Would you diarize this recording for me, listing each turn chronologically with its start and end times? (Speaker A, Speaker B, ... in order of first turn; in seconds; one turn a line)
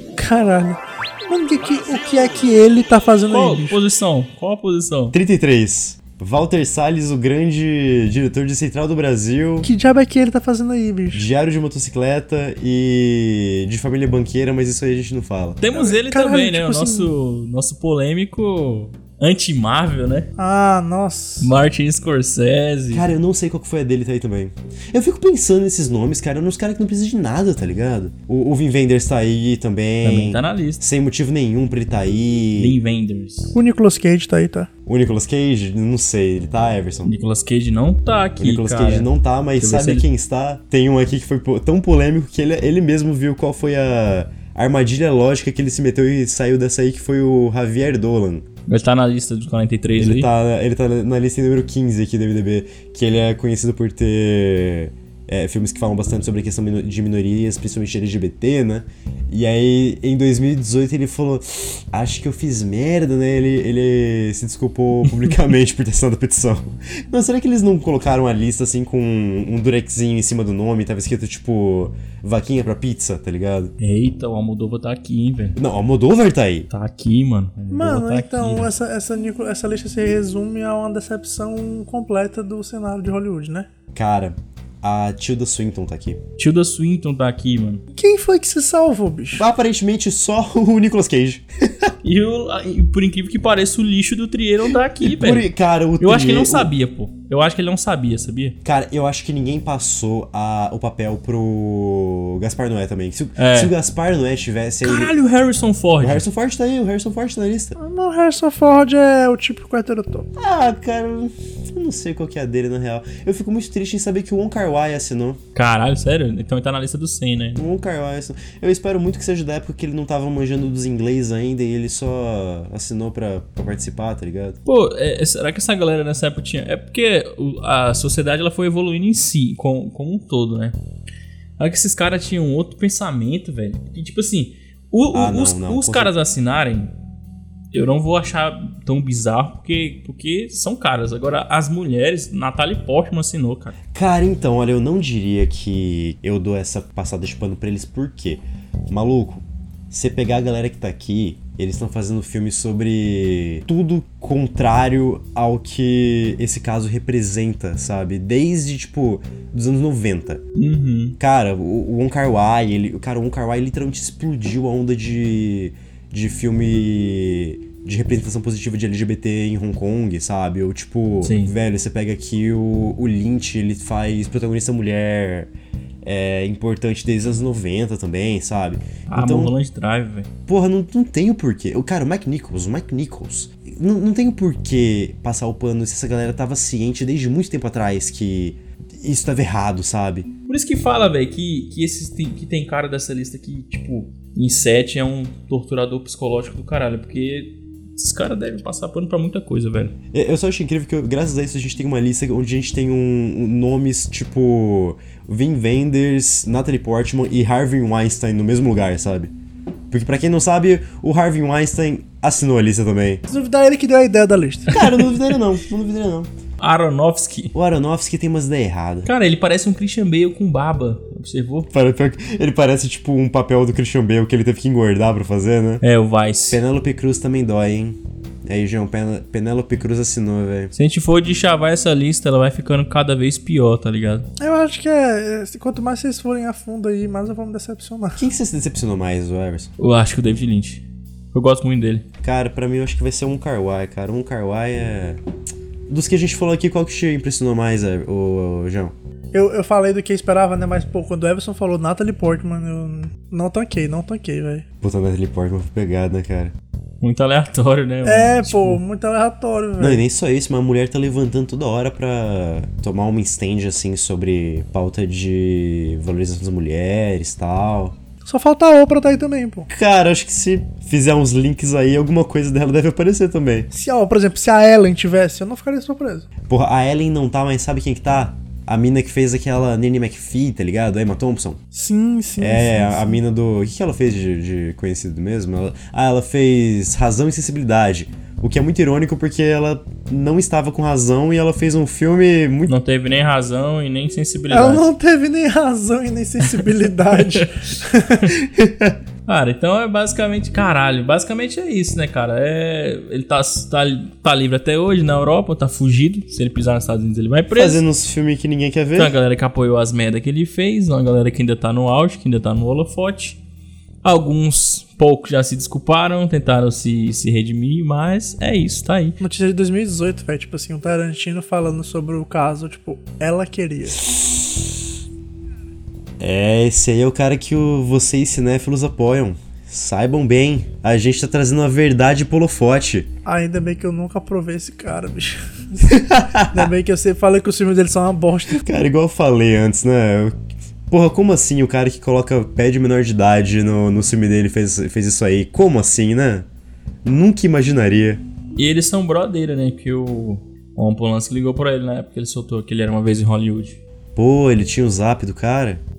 Speaker A: 0.2-3.8
Speaker B: 3.3-5.2
Speaker C: 5.1-9.7
Speaker A: 9.6-11.3
Speaker C: 11.1-15.6
Speaker B: 15.6-20.3
Speaker A: 15.7-17.1
Speaker A: 20.4-21.5
Speaker B: 21.4-23.1
Speaker C: 22.9-32.8
Speaker B: 30.0-30.8
Speaker B: 32.6-33.6
Speaker A: 33.5-34.7
Speaker C: 34.9-37.1
Speaker B: 37.0-40.0
Speaker C: 38.4-48.5
Speaker B: 48.7-50.3
Speaker C: 50.0-73.7
Speaker B: 73.8-75.6
Speaker C: 75.6-76.7
Speaker B: 76.7-78.7
Speaker A: 77.7-83.7
Speaker C: 84.0-86.2
Speaker B: 86.4-87.8
Speaker A: 88.0-89.5
Speaker C: 89.3-91.9
Speaker B: 92.0-95.5
Speaker C: 95.0-96.7
Speaker B: 96.0-98.6
Speaker C: 98.6-105.2
Speaker B: 103.4-103.7
Speaker B: 104.8-106.2
Speaker C: 106.0-107.8
Speaker A: 107.8-110.3
Speaker C: 110.4-115.4
Speaker B: 115.5-117.6
Speaker C: 117.5-124.6
Speaker B: 124.7-130.8
Speaker B: 131.6-136.9
Speaker C: 135.1-136.2
Speaker B: 137.7-143.8
Speaker C: 143.9-160.4
Speaker B: 160.6-161.2
Speaker C: 161.2-175.5
Speaker B: 171.2-171.5
Speaker C: 176.0-179.5
Speaker B: 179.1-180.3
Speaker C: 180.5-190.3
Speaker B: 190.5-199.9
Speaker C: 200.1-209.3
Speaker C: 209.9-213.2
Speaker A: 213.3-214.7
Speaker C: 214.7-216.3
Speaker B: 216.6-217.5
Speaker C: 217.5-219.1
Speaker B: 219.1-221.7
Speaker C: 221.7-225.8
Speaker B: 225.8-226.6
Speaker C: 226.5-230.7
Speaker B: 230.7-234.3
Speaker A: 234.4-238.2
Speaker C: 238.2-239.7
Speaker B: 239.8-242.1
Speaker C: 242.2-245.2
Speaker C: 245.9-248.9
Speaker A: 249.3-254.7
Speaker C: 254.8-256.6
Speaker B: 257.0-258.8
Speaker A: 258.0-260.0
Speaker C: 259.8-268.0
Speaker A: 268.2-269.7
Speaker C: 269.7-273.7
Speaker A: 273.7-276.3
Speaker C: 276.5-281.6
Speaker A: 281.7-283.2
Speaker C: 282.4-292.7
Speaker B: 292.7-294.9
Speaker A: 294.5-298.4
Speaker B: 296.5-297.5
Speaker C: 298.5-299.0
Speaker B: 299.3-307.8
Speaker C: 307.5-309.1
Speaker B: 308.9-313.4
Speaker B: 314.0-319.2
Speaker A: 319.2-324.1
Speaker C: 324.1-324.6
Speaker C: 326.2-333.1
Speaker A: 333.3-335.4
Speaker C: 335.9-336.7
Speaker A: 336.5-338.7
Speaker C: 338.5-340.4
Speaker C: 340.9-346.5
Speaker C: 347.0-348.2
Speaker B: 348.6-353.8
Speaker C: 354.2-355.8